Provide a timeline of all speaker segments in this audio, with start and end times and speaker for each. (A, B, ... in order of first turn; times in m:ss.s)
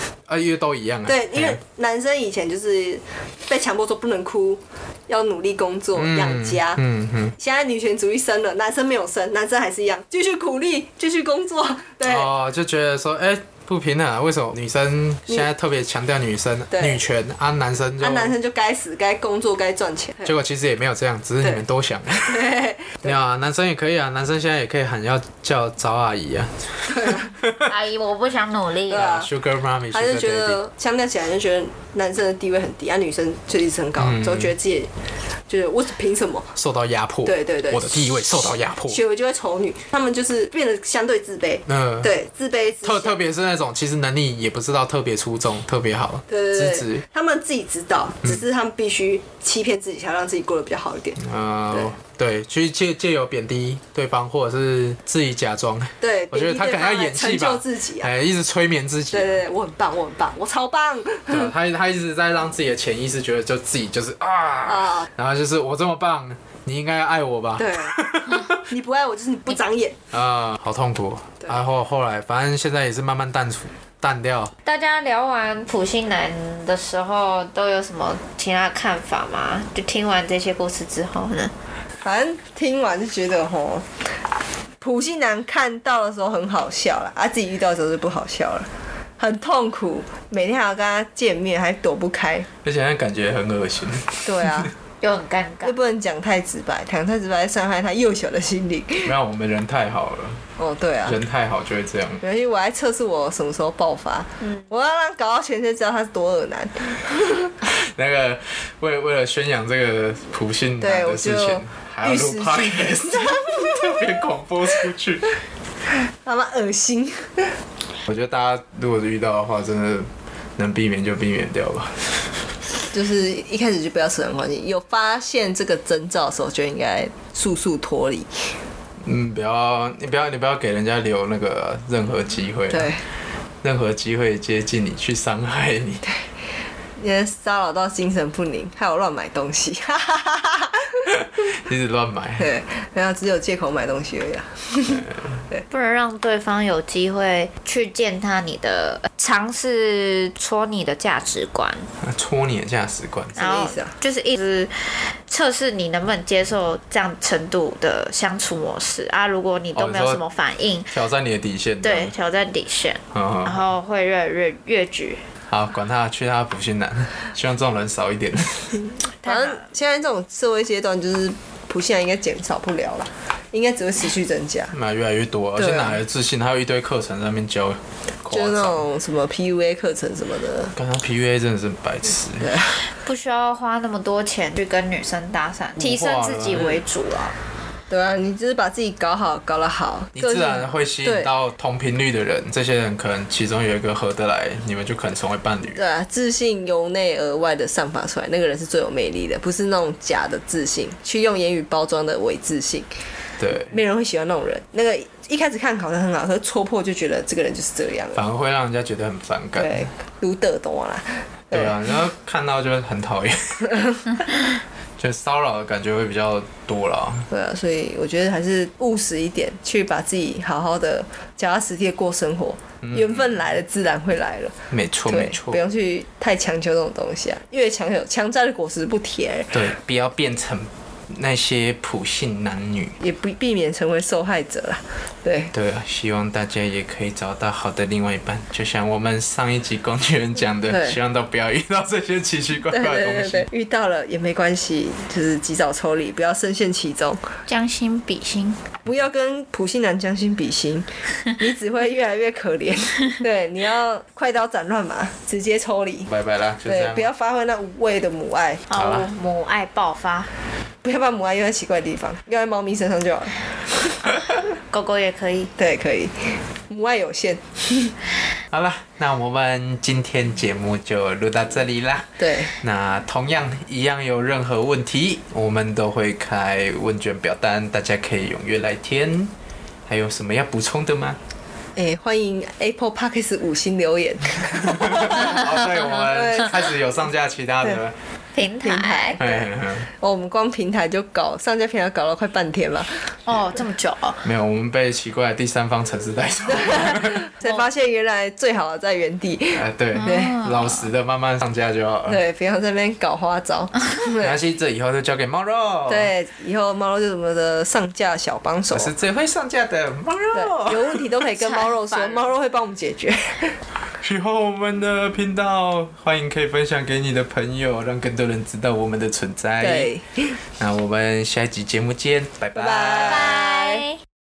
0:00.3-0:01.6 A
0:01.0-0:06.8 B
0:05.9-0:07.3 A
0:07.4-0:12.3 B
0:12.0-0:18.3 A
0:16.7-0:17.0 B
0:18.0-0:20.3 B
0:20.2-0:22.5 A
0:22.2-0:23.1 B
0:23.0-0:27.7 A
0:26.9-0:27.3 B
0:27.6-0:29.1 C
0:28.9-0:29.3 B
0:28.9-0:30.6 A
0:29.9-0:34.9 B
0:34.0-0:34.5 A
0:35.5-0:36.5 B
0:36.5-0:39.0 A
0:37.2-0:38.0 B
0:38.9-0:43.2 B
0:41.7-0:42.1 A
0:42.8-0:47.0 A
0:46.3-0:51.9 B
0:51.2-0:59.3 A
0:56.0-0:58.1 B
0:59.1-1:01.5 B
1:01.3-1:08.6 A
1:04.6-1:05.1 B
1:07.6-1:10.0 B
1:10.1-1:14.5 A
1:14.6-1:21.5 C
1:22.0-1:23.8 B
1:24.8-1:32.5 B
1:32.6-1:34.7 A
1:34.2-1:34.7 B
1:35.0-1:35.7 C
1:35.6-1:39.1 B
1:39.0-1:40.4 A
1:40.6-1:41.2 B
1:41.0-1:42.2 A
1:42.2-1:47.5 B
1:47.6-1:55.4 A
1:50.8-1:54.0 B
1:56.2-1:57.6 B
1:58.0-2:02.4 A
2:02.9-2:08.3 B
2:09.0-2:12.9 A
2:12.7-2:13.0 B
2:13.6-2:16.0 A
2:17.0-2:21.1 B
2:21.1-2:22.5 A
2:22.4-2:25.6 B
2:24.9-2:25.3 A
2:25.7-2:31.9 C
2:32.0-2:33.5 A
2:33.4-2:40.9 C
2:33.4-2:33.9 B
2:39.7-2:40.2 A
2:40.9-2:42.1 A
2:41.8-2:45.2 C
2:43.1-2:43.6 A
2:45.5-2:48.8 A
2:49.2-2:54.7 B
2:49.2-2:49.6 C
2:54.7-2:58.8 A
2:55.6-2:56.0 B
2:58.3-3:00.8 B
3:00.7-3:02.6 A
3:02.4-3:02.8 B
3:02.9-3:07.4 C
3:05.8-3:06.8 A
3:07.9-3:11.3 B
3:10.1-3:15.8 A
3:15.7-3:22.9 B
3:23.4-3:23.7 A
3:23.6-3:28.2 B
3:28.1-3:29.9 A
3:29.6-3:31.8 B
3:31.5-3:37.3 A
3:37.3-3:49.6 B
3:42.8-3:43.3 A
3:44.7-3:45.6 A
3:49.5-3:53.0 A
3:53.0-3:55.5 B
3:55.5-4:03.5 A
4:00.7-4:01.0 B
4:02.7-4:07.2 B
4:07.5-4:08.6 C
4:08.8-4:16.1 B
4:16.1-4:17.1 A
4:16.6-4:18.6 B
4:18.7-4:20.3 C
4:18.7-4:19.1 A
4:20.8-4:23.9 B
4:24.7-4:25.5 C
4:25.6-4:27.9 B
4:28.5-4:39.3 A
4:32.2-4:32.5 B
4:39.9-4:41.2 A
4:41.8-4:46.8 B
4:44.7-4:47.9 A
4:48.3-4:49.2 C
4:48.6-4:53.1 B
4:49.2-4:49.9 A
4:53.2-4:54.2 C
4:54.2-4:57.2 A
4:56.5-5:00.4 B
4:59.5-5:02.2 A
5:00.0-5:00.8 C
5:02.1-5:04.3 B
5:04.2-5:06.1 A
5:05.9-5:08.9 B
5:08.7-5:11.1 A
5:10.3-5:13.6 B
5:11.4-5:12.3 C
5:14.0-5:19.9 A
5:19.6-5:20.4 B
5:20.6-5:23.3 A
5:22.5-5:23.9 B
5:22.9-5:24.0 C